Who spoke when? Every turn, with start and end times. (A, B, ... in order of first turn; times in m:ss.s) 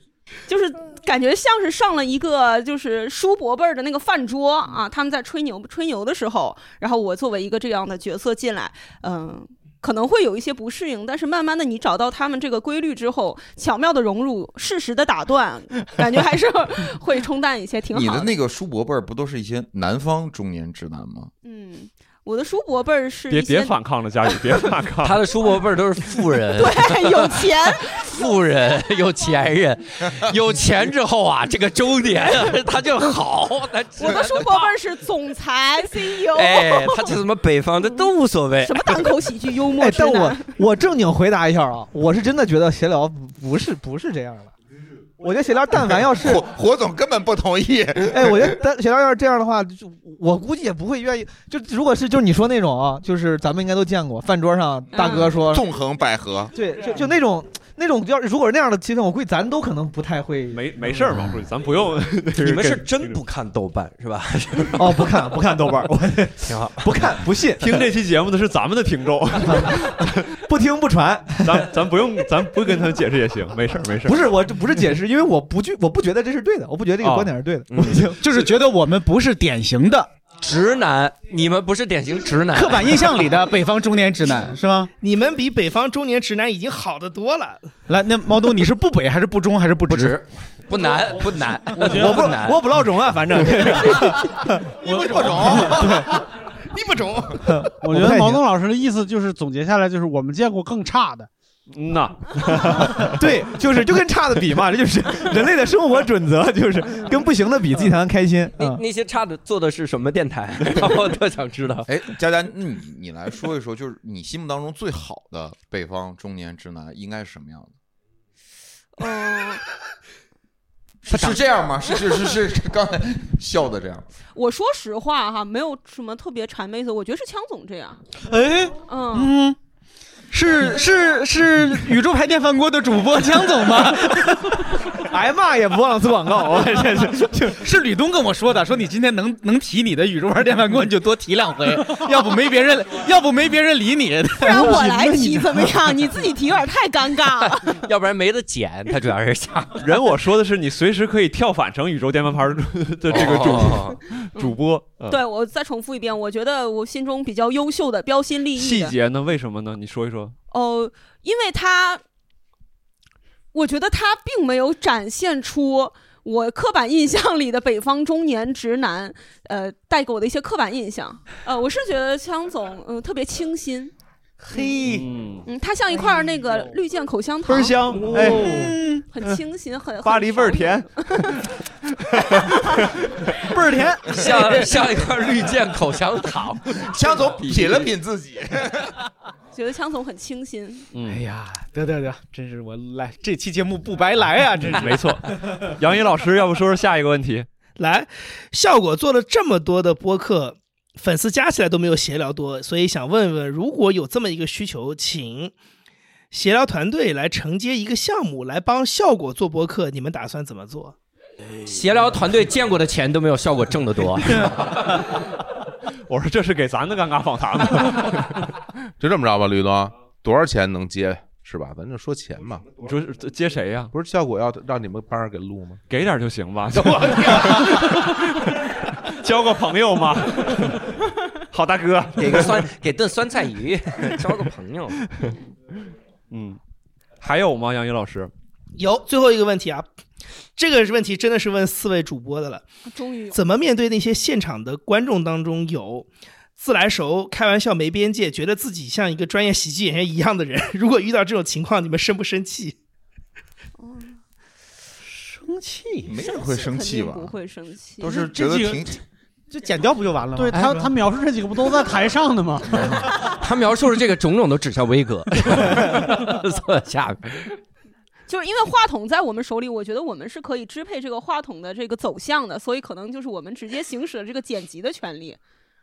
0:00.5-0:18.3 A
0:17.9-0:21.3 B
0:21.4-0:23.8 A
0:23.3-0:25.2 C
0:25.0-0:34.8 D
0:26.5-0:28.3 A
0:34.0-0:37.2 A
0:36.1-0:39.1 D
0:38.6-0:40.5 A
0:39.8-0:44.5 E
0:45.2-0:46.5 E
0:45.9-0:48.5 B
0:48.1-0:55.6 E
0:54.9-0:55.3 A
0:55.3-0:56.5 B
0:56.5-1:01.2 E
1:00.5-1:03.2 C
1:02.4-1:05.0 D
1:04.8-1:07.8 E
1:06.4-1:07.0 D
1:07.6-1:10.3 C
1:10.4-1:11.7 E
1:11.4-1:14.3 C
1:14.0-1:18.4 E
1:17.0-1:18.0 C
1:17.7-1:18.0 D
1:18.2-1:20.1 F
1:20.4-1:23.2 D
1:22.5-1:24.9 F
1:25.0-1:27.6 G
1:27.9-1:30.2 F
1:29.9-1:32.6 D
1:31.8-1:34.6 E
1:31.8-1:32.3 H
1:33.6-1:34.2 D
1:34.8-1:36.1 I
1:34.9-1:35.8 B
1:35.5-1:36.1 E
1:36.7-1:37.6 I
1:37.5-1:38.4 E
1:37.8-1:41.3 H
1:41.7-1:43.2 C
1:43.0-1:48.8 E
1:48.6-1:51.9 D
1:51.8-1:57.7 B
1:59.0-1:59.6 A
2:01.0-2:04.0 B
2:01.1-2:01.4 F
2:04.3-2:08.0 A
2:08.2-2:09.6 F
2:08.9-2:09.3 A
2:10.3-2:14.8 F
2:15.0-2:17.6 E
2:17.5-2:24.8 F
2:24.4-2:27.8 A
2:24.4-2:25.8 E
2:27.3-2:29.8 D
2:29.8-2:35.2 C
2:33.1-2:34.0 D
2:35.1-2:39.0 A
2:38.6-2:40.3 C
2:40.5-2:42.0 A
2:43.5-2:53.9 A
2:54.4-2:55.1 F
2:54.8-2:55.4 C
2:55.4-2:58.6 A
2:57.4-2:58.7 C
2:58.1-2:59.1 F
2:59.1-3:01.4 A
3:00.0-3:01.3 C
3:02.1-3:02.8 C
3:02.4-3:02.8 A
3:03.4-3:04.8 F
3:04.1-3:07.9 D
3:06.8-3:08.9 B
3:09.5-3:10.9 A
3:10.9-3:11.2 C
3:11.0-3:15.1 F
3:14.7-3:17.5 C
3:17.8-3:25.5 G
3:26.3-3:30.9 G
3:31.6-3:34.6 D
3:36.1-3:38.5 C
3:39.0-3:42.8 I
3:42.8-3:43.9 C
3:43.9-3:45.8 I
3:45.9-3:50.9 C
3:46.7-3:47.9 I
3:51.5-3:52.7 C
3:52.2-3:55.0 D
3:56.3-3:56.6 C
3:57.2-3:58.3 C
3:58.8-3:59.9 G
4:00.6-4:02.7 G
4:02.8-4:03.4 A
4:03.3-4:12.8 G
4:13.8-4:14.2 A
4:15.0-4:16.1 F
4:16.1-4:17.3 B
4:16.2-4:18.2 A
4:18.0-4:19.0 B
4:18.3-4:18.8 H
4:19.5-4:20.9 F
4:20.4-4:23.0 H
4:23.2-4:27.5 D
4:28.3-4:35.4 A